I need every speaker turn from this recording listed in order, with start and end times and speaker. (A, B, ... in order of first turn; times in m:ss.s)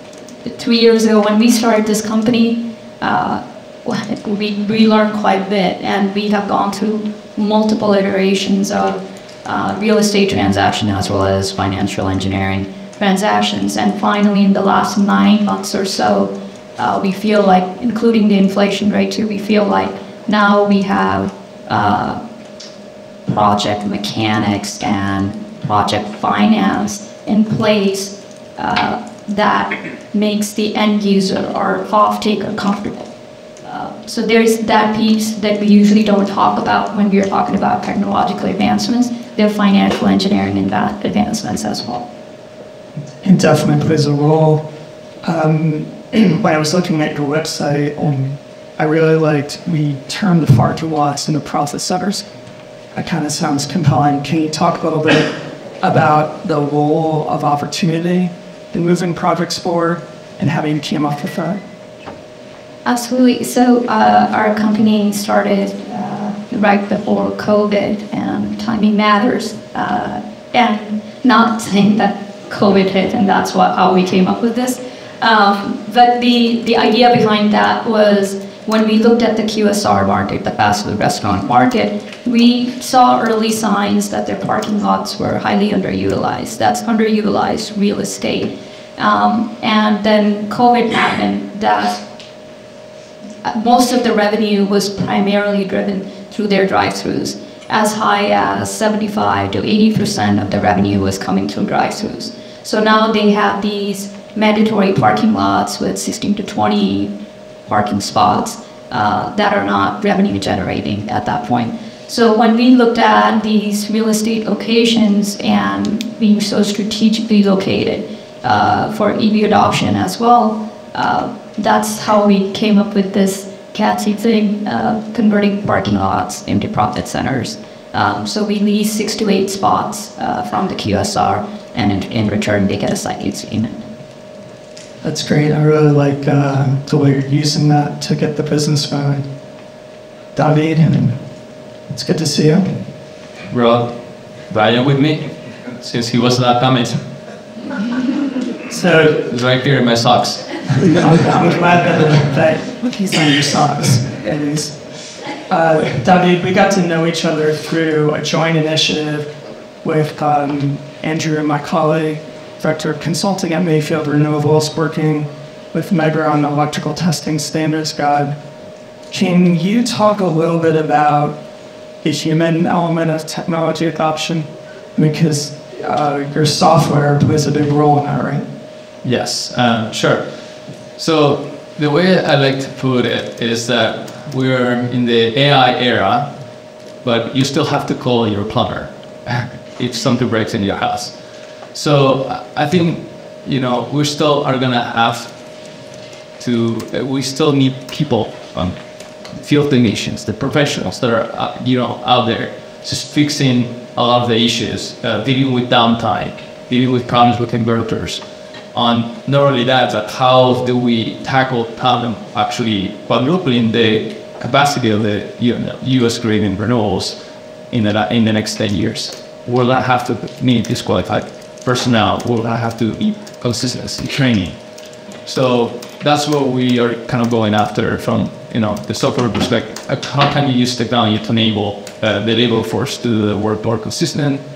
0:00.4-0:22.2 A
0:23.3-0:33.1 A
0:33.6-0:42.1 A
0:43.2-0:44.7 B
0:45.2-0:52.3 B
0:52.9-1:01.6 B
1:02.8-1:32.0 A
1:33.4-2:13.8 A
2:15.0-2:19.3 B
2:20.4-2:21.2 B
2:21.9-2:22.9 B
2:23.5-2:27.0 C
2:28.7-2:29.2 B
2:29.2-2:31.1 C
2:30.9-2:48.4 B
2:49.1-2:51.4 B
2:52.0-2:58.5 B
2:59.0-3:00.3 C
3:01.0-3:06.3 C
3:07.0-3:11.2 C
3:11.7-3:15.3 C
3:16.4-3:37.2 C
3:37.7-3:44.6 C
3:45.2-3:54.4 C